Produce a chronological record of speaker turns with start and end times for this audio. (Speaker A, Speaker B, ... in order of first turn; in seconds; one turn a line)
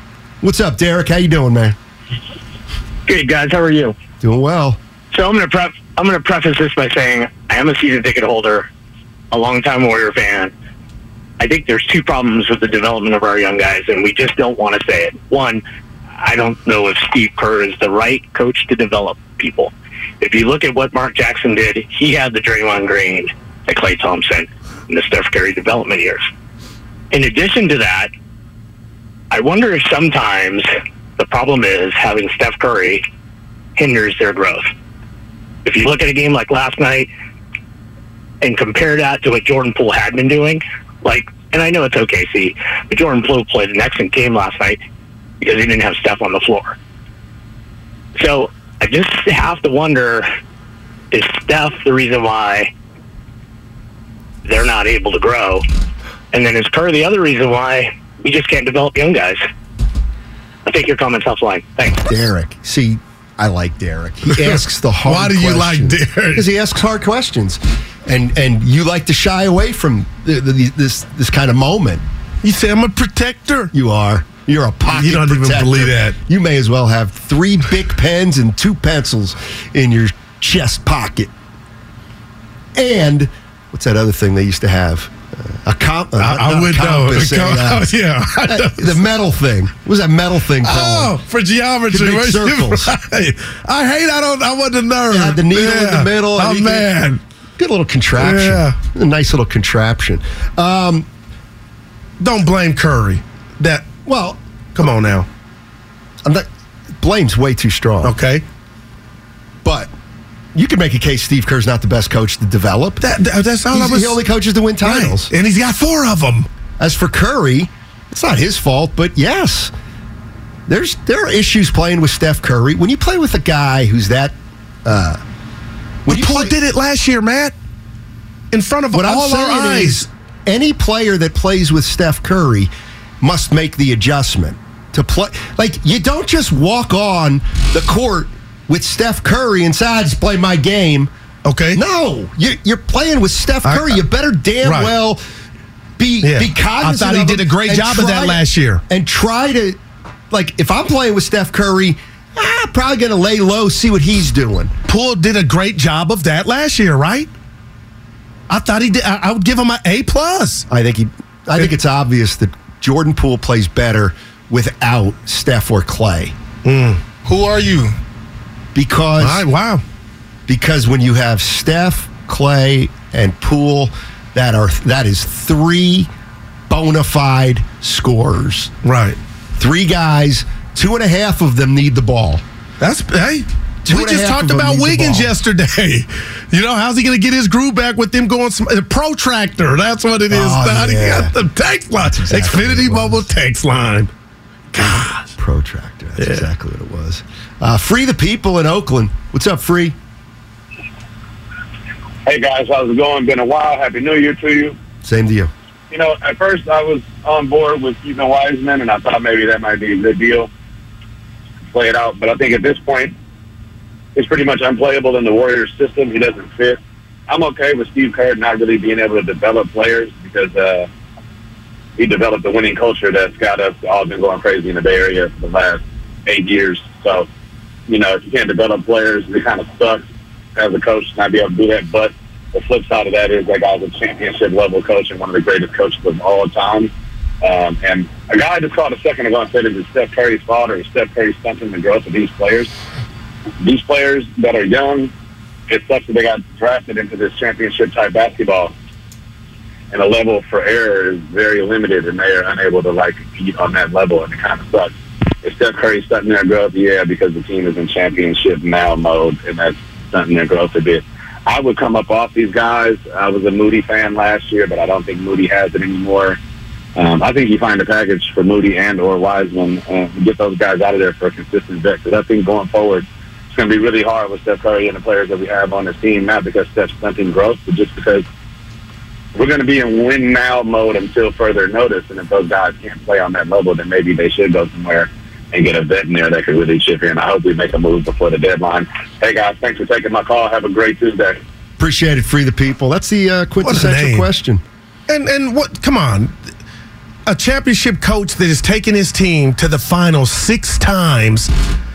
Speaker A: 0.4-1.8
Speaker B: 3.1-3.9
Speaker A: 4.2-4.8
Speaker B: 5.1-8.7
Speaker B: 9.3-10.5
Speaker B: 11.4-15.6
Speaker B: 16.2-26.2
Speaker B: 27.1-28.1
Speaker B: 29.3-33.0
Speaker B: 33.8-34.7
Speaker B: 35.6-37.1
Speaker B: 38.4-44.8
Speaker B: 45.4-46.8
Speaker B: 48.2-50.3
Speaker B: 51.1-52.7
Speaker B: 54.4-55.6
Speaker B: 56.3-59.4
Speaker B: 60.6-62.1
Speaker A: 62.0-72.0
Speaker C: 64.3-66.5
Speaker C: 72.4-73.7
Speaker A: 73.7-81.3
Speaker C: 74.9-76.2
Speaker A: 82.8-87.9
Speaker C: 86.2-89.0
Speaker A: 88.5-91.2
Speaker C: 90.6-97.2
Speaker A: 91.9-92.9
Speaker A: 95.1-96.9
Speaker A: 97.6-101.1
Speaker C: 98.2-98.8
Speaker C: 102.2-103.9
Speaker A: 104.0-104.4
Speaker C: 104.7-105.3
Speaker A: 107.0-108.1
Speaker C: 108.0-108.4
Speaker A: 109.6-109.9
Speaker A: 110.5-113.0
Speaker C: 113.0-114.2
Speaker A: 113.7-115.3
Speaker C: 114.8-116.5
Speaker A: 116.8-119.7
Speaker A: 120.7-125.2
Speaker A: 126.0-126.5
Speaker C: 126.1-127.5
Speaker C: 128.5-130.1
Speaker A: 128.9-141.1
Speaker C: 141.4-141.8
Speaker A: 141.7-145.2
Speaker C: 143.6-144.0
Speaker C: 144.6-144.9
Speaker A: 146.0-149.8
Speaker C: 146.2-148.8
Speaker A: 150.3-154.7
Speaker C: 154.9-157.3
Speaker C: 158.5-160.7
Speaker A: 160.7-166.3
Speaker C: 166.6-167.9
Speaker A: 168.7-169.4
Speaker C: 169.2-169.8
Speaker A: 170.5-176.1
Speaker A: 176.7-178.7
Speaker C: 178.8-179.2
Speaker A: 179.5-182.4
Speaker C: 182.8-194.1
Speaker A: 183.8-185.3
Speaker A: 190.3-191.3
Speaker A: 192.0-193.2
Speaker C: 194.7-195.3
Speaker A: 195.4-199.9
Speaker C: 196.2-196.4
Speaker D: 202.2-204.8
Speaker A: 205.0-205.5
Speaker D: 205.9-210.5
Speaker D: 211.7-213.1
Speaker D: 214.2-220.9
Speaker D: 222.0-227.3
Speaker D: 227.9-230.0
Speaker D: 230.6-236.9
Speaker D: 237.4-242.7
Speaker D: 243.6-245.1
Speaker D: 245.7-248.7
Speaker D: 249.9-254.9
Speaker D: 255.4-266.4
Speaker D: 266.9-278.2
Speaker D: 279.3-291.4
Speaker A: 291.8-294.6
Speaker C: 293.6-294.3
Speaker C: 295.1-296.3
Speaker C: 297.3-301.5